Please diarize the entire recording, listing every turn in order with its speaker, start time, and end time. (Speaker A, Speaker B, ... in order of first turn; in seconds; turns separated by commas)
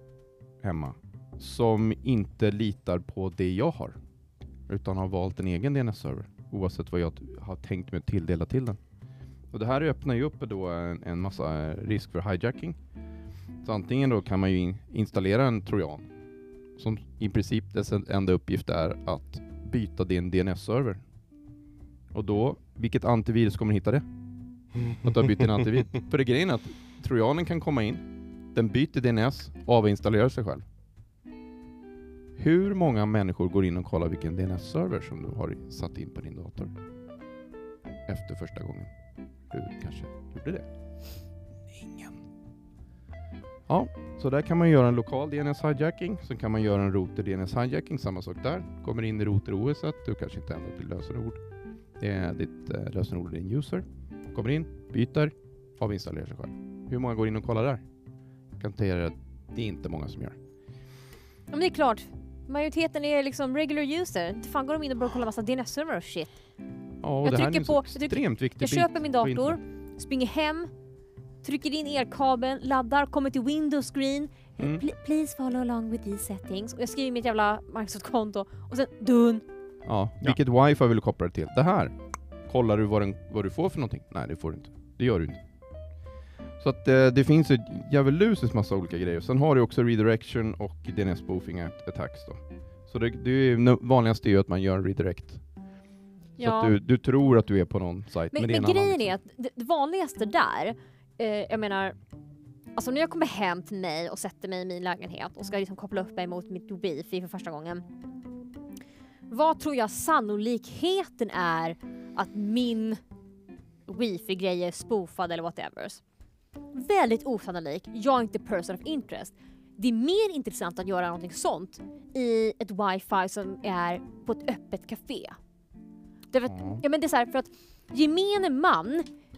Speaker A: 0.6-4.0, Speaker A: 4.7-8.8, Speaker A: 9.5-12.8, Speaker A: 13.6-16.1, Speaker A: 16.8-21.0, Speaker A: 22.1-24.0, Speaker A: 25.0-30.6, Speaker A: 32.4-36.7, Speaker A: 38.1-38.9, Speaker A: 39.5-40.7, Speaker A: 41.7-42.2, Speaker A: 43.7-51.4, Speaker A: 52.0-57.8, Speaker A: 58.6-60.4, Speaker B: 61.5-66.4, Speaker A: 67.0-69.6, Speaker B: 67.2-70.7, Speaker B: 71.4-79.4, Speaker A: 79.8-81.9, Speaker A: 82.5-85.4, Speaker A: 86.6-95.4, Speaker B: 96.4-96.7, Speaker A: 96.4-99.1, Speaker B: 98.3-101.9, Speaker B: 102.8-107.8, Speaker B: 109.3-113.0, Speaker B: 113.9-116.0, Speaker B: 116.7-125.4, Speaker B: 126.3-129.1, Speaker A: 126.5-126.8